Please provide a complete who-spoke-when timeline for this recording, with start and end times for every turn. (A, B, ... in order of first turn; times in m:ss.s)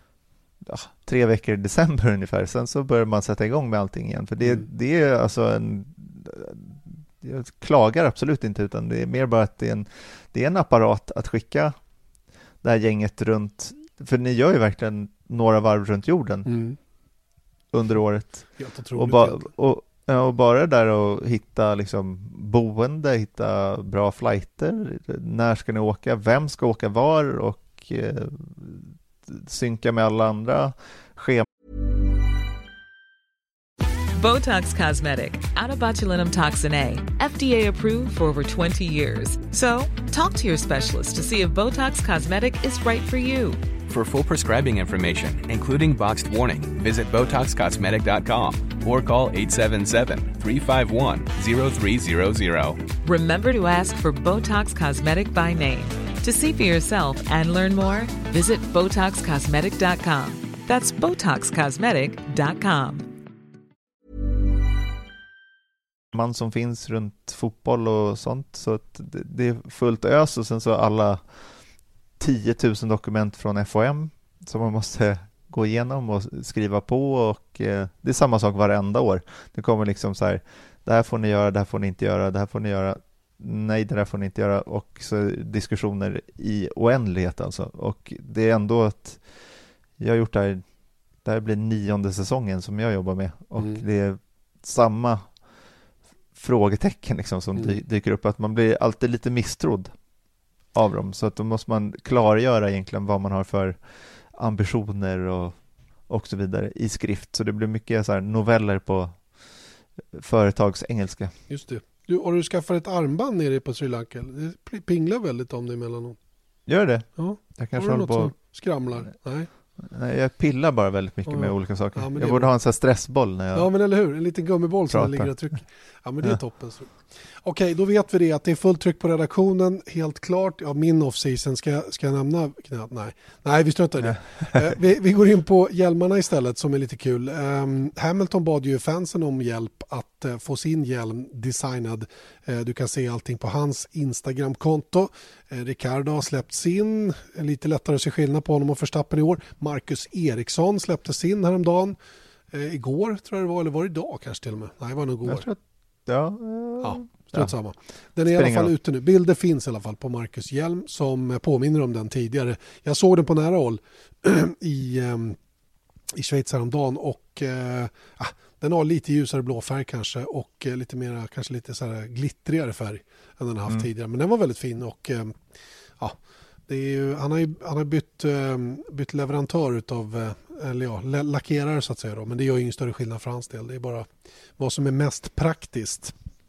0:00.6-0:11.7 A
0:12.6-0:16.5 A
0:16.4-0:16.8 B
0:17.7-0:31.4 A
0:18.6-0:19.5 B
0:34.1-0:43.7 C
0:43.9-0:52.8 D
0:53.0-1:03.1 C
1:06.1-1:11.2 A
1:12.2-1:29.2 A
1:30.0-1:30.6 A
1:31.2-1:35.3 A
1:33.6-1:33.8 B
1:36.4-1:39.9 A
1:40.7-1:43.8 A
1:44.3-1:45.6 A
1:46.1-1:49.2 A
1:50.1-1:51.3 A
1:51.5-1:56.2 B
1:56.7-1:58.3 A
1:57.2-1:59.5 B
1:59.8-2:03.7 A
2:01.3-2:02.5 B
2:03.5-2:32.0 B
2:04.9-2:05.3 A
2:32.5-2:35.5 B
2:35.2-2:37.5 A
2:36.8-2:45.4 B
2:38.2-2:38.7 A
2:46.2-2:55.4 B
2:56.7-3:06.1 B